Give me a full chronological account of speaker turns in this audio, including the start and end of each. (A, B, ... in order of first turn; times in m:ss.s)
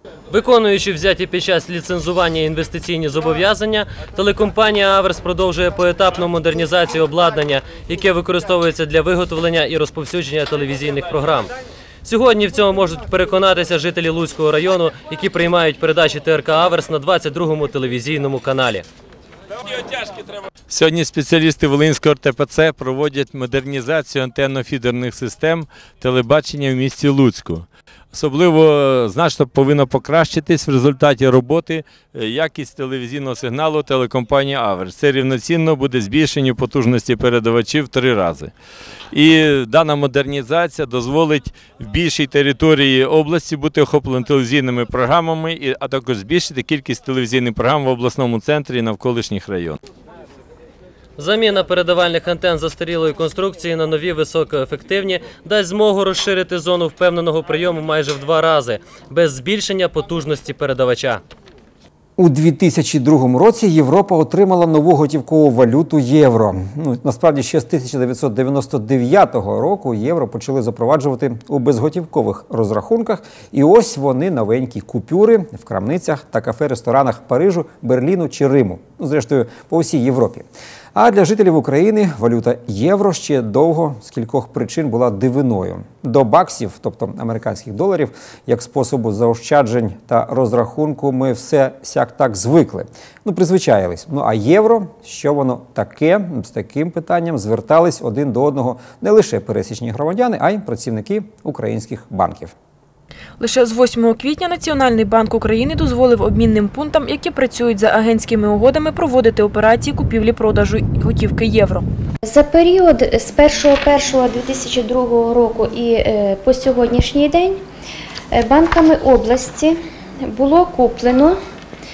0:00.3-0:11.5 A
0:12.0-0:18.8 A
0:20.7-0:38.5 B
0:39.1-0:49.8 B
0:51.2-1:01.2 A
1:02.2-1:42.5 C
1:43.4-1:51.8 D
1:52.2-1:57.6 E
1:58.3-1:59.8 E
2:00.3-2:01.4 E